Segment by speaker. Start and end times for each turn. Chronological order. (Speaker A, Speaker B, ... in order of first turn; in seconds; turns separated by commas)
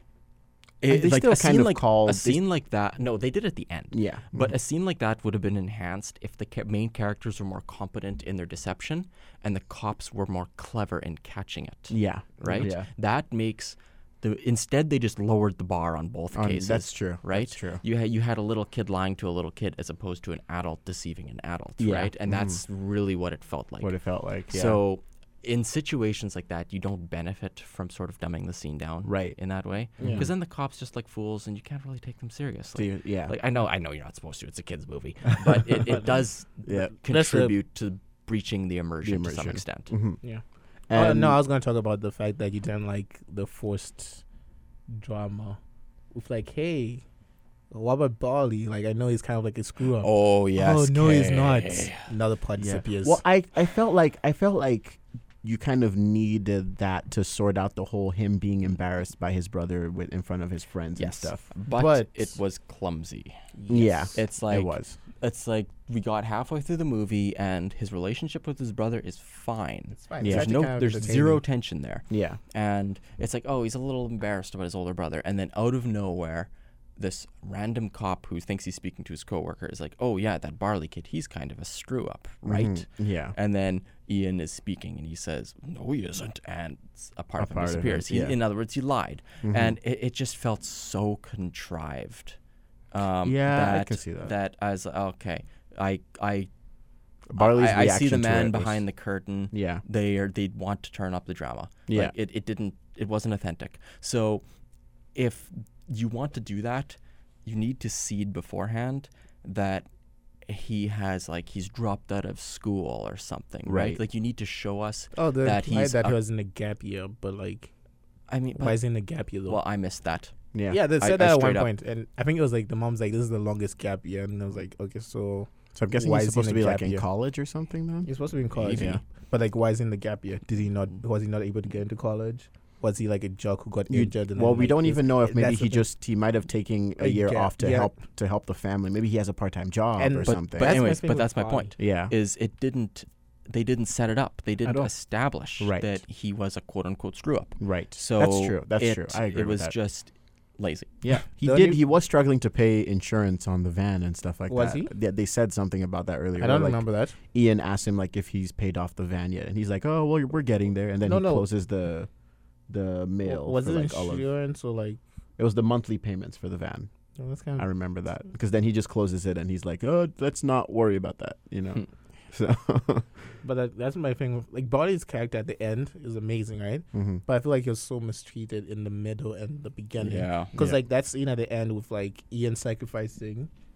Speaker A: 0.8-23.9, Speaker B: 0.9-2.4, Speaker B: 3.9-4.5, Speaker B: 11.9-12.9, Speaker B: 16.3-17.8, Speaker B: 21.8-22.6, Speaker B: 23.8-24.8, Speaker A: 24.5-39.9, Speaker B: 29.0-29.4, Speaker C: 30.0-30.3, Speaker B: 30.0-30.3, Speaker B: 32.8-33.3, Speaker B: 35.5-35.9, Speaker B: 36.6-36.9, Speaker C: 37.1-37.5, Speaker B: 39.0-40.2, Speaker B: 40.9-41.4, Speaker C: 40.9-44.2, Speaker C: 44.9-45.6, Speaker C: 46.1-47.0, Speaker C: 47.7-53.2, Speaker A: 50.0-52.1, Speaker B: 52.6-61.5, Speaker A: 61.0-63.4, Speaker C: 61.7-62.3, Speaker C: 63.6-64.1, Speaker B: 63.7-65.0, Speaker A: 64.1-92.4, Speaker C: 70.0-71.4, Speaker B: 70.2-70.5, Speaker B: 72.1-72.4, Speaker B: 82.4-83.3, Speaker B: 87.4-88.3, Speaker B: 89.4-89.8, Speaker A: 92.9-96.5, Speaker B: 93.2-94.3, Speaker B: 97.3-98.8, Speaker A: 97.4-104.4, Speaker B: 99.5-99.8, Speaker B: 101.9-102.1, Speaker A: 105.1-109.8, Speaker A: 110.5-116.1, Speaker B: 113.7-114.0, Speaker C: 115.1-117.7, Speaker A: 118.3-118.8, Speaker C: 118.5-119.6, Speaker A: 119.5-120.3, Speaker B: 120.5-120.8, Speaker C: 120.7-127.0, Speaker A: 121.0-121.7, Speaker B: 125.7-128.1, Speaker C: 128.0-135.9, Speaker A: 128.5-129.0, Speaker B: 128.7-129.0, Speaker B: 133.9-140.8, Speaker C: 137.0-137.9, Speaker C: 140.0-141.7, Speaker A: 140.2-150.9, Speaker B: 141.8-142.1, Speaker B: 145.6-145.8, Speaker B: 147.6-149.7, Speaker B: 151.0-162.1, Speaker C: 151.4-151.8, Speaker C: 154.5-154.9, Speaker C: 156.4-157.2, Speaker C: 161.0-161.4, Speaker B: 162.7-164.3, Speaker C: 163.2-165.0, Speaker B: 165.4-166.9, Speaker C: 167.2-167.7, Speaker B: 167.6-173.1, Speaker C: 173.4-183.5, Speaker B: 176.9-177.2, Speaker A: 180.0-180.5, Speaker B: 180.5-180.8